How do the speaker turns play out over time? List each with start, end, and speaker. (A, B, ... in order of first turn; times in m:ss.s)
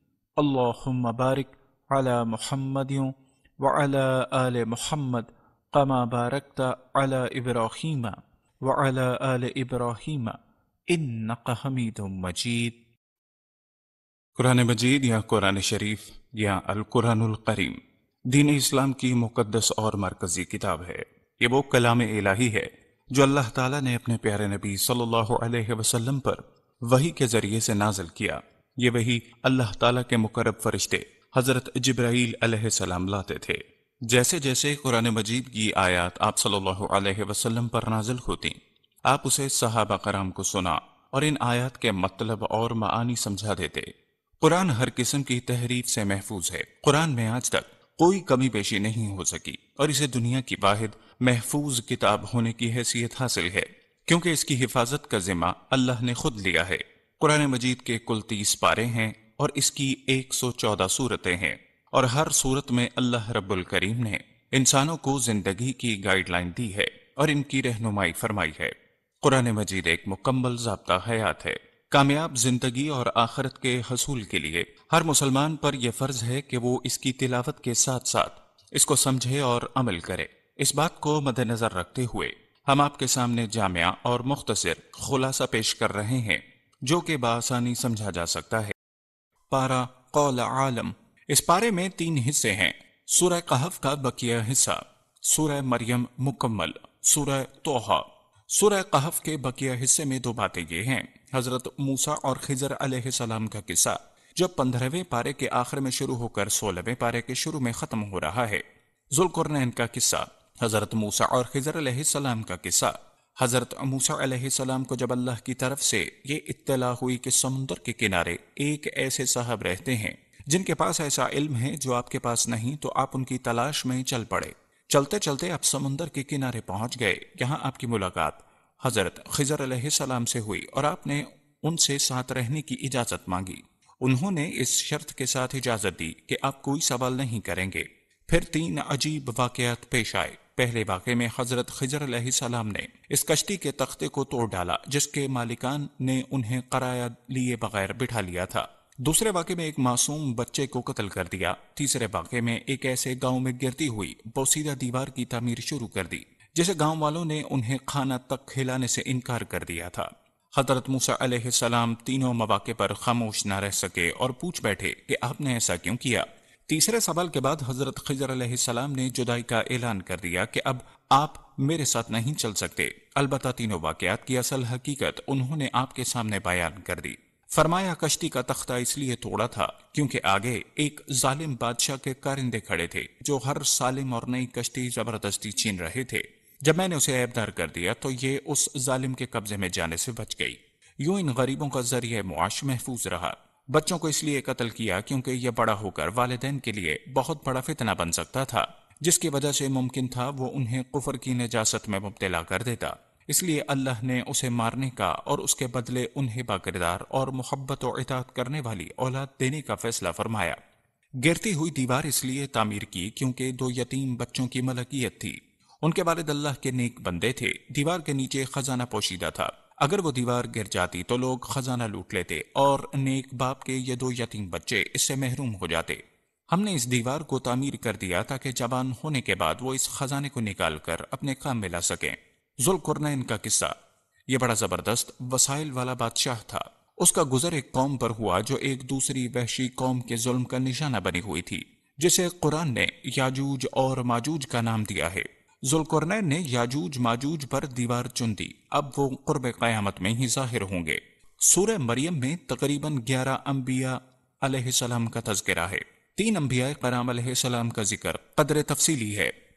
0:00.4-0:10.4 A
0:10.9-0:12.8 A
0:14.4-0:17.8 A
0:18.3-1:28.7 A
1:29.5-3:30.6 A
3:31.2-3:53.8 A
3:54.3-4:19.3 A